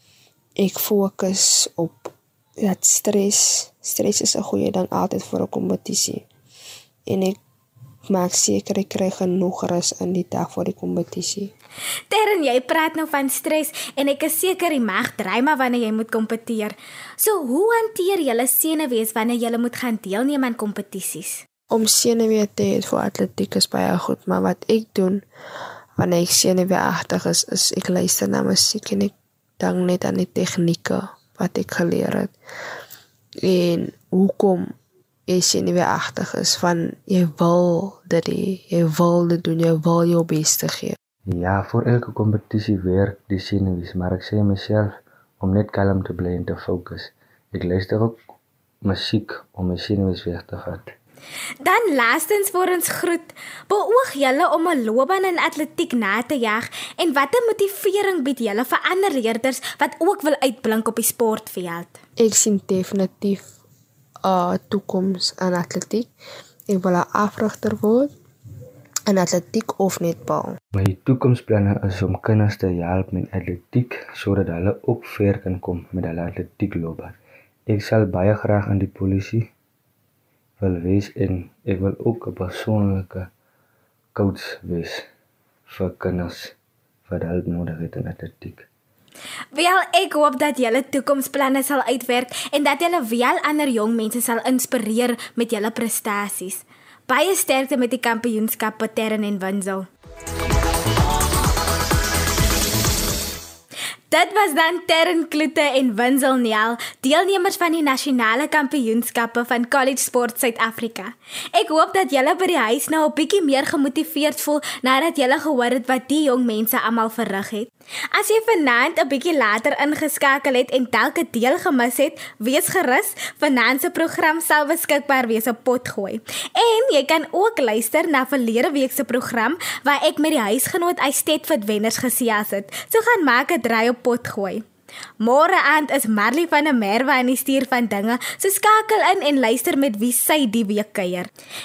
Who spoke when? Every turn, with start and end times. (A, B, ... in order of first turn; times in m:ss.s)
0:00.6-0:06.2 A
0:07.1-0:07.4 A
0:08.1-0:11.5 A
0:12.1-0:21.4 B
0:21.7-0:25.2 A
0:26.0-0:32.3 A
0:33.4-0:34.7 A
0:35.3-0:41.0 A
0:41.3-0:48.2 C
0:48.8-0:50.9 C
0:51.6-1:02.0 B
1:02.2-1:03.4 A
1:04.2-1:06.1 A
1:06.7-1:08.1 A
1:09.1-1:10.6 A
1:10.7-1:17.2 C
1:17.7-1:19.5 C
1:20.6-1:23.3 C
1:24.1-1:25.1 C
1:25.7-1:26.6 C
1:27.1-1:28.7 C
1:29.5-1:39.9 B
1:44.1-2:14.6 B
2:15.2-2:21.3 B